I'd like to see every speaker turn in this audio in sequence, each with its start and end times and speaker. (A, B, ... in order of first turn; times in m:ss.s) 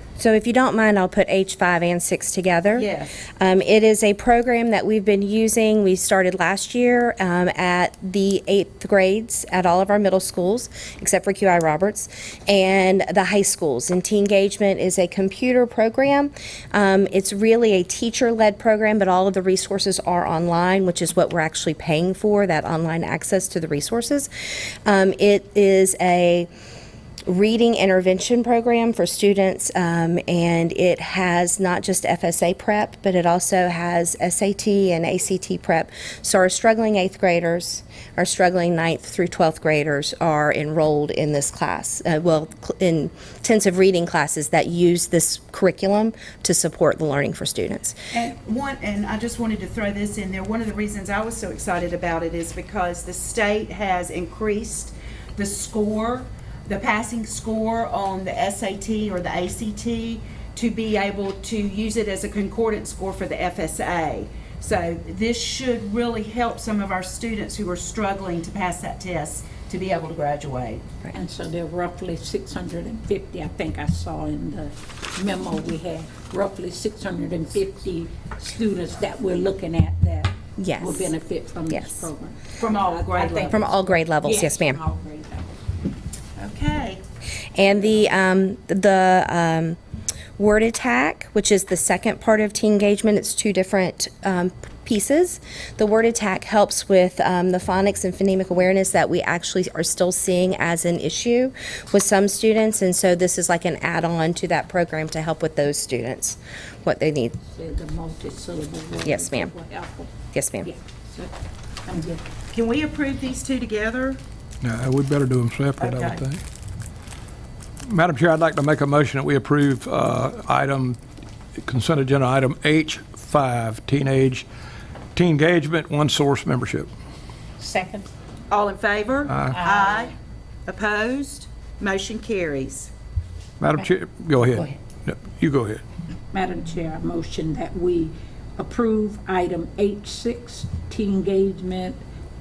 0:00.2-0:26.5 A
0:02.7-0:03.2 B
0:27.3-0:48.0 A
0:48.1-1:10.9 B
1:11.1-1:25.5 C
1:20.6-1:21.1 A
1:21.7-1:22.1 A
1:22.6-1:23.6 B
1:23.5-1:24.8 A
1:26.4-1:27.0 B
1:27.6-1:29.8 A
1:30.4-1:47.4 A
1:47.4-1:50.1 C
1:49.0-1:49.5 A
1:50.3-1:50.7 A
1:50.6-1:51.3 C
1:51.8-1:52.2 C
1:52.5-1:54.2 B
1:54.6-1:56.4 D
1:55.8-1:56.2 B
1:57.8-2:01.0 D
2:01.6-2:04.5 D
2:05.2-2:06.9 D
2:07.6-2:08.1 C
2:08.5-2:10.1 B
2:09.3-2:09.6 D
2:09.5-2:10.1 C
2:10.7-2:12.9 B
2:13.6-2:15.8 D
2:16.3-2:22.0 C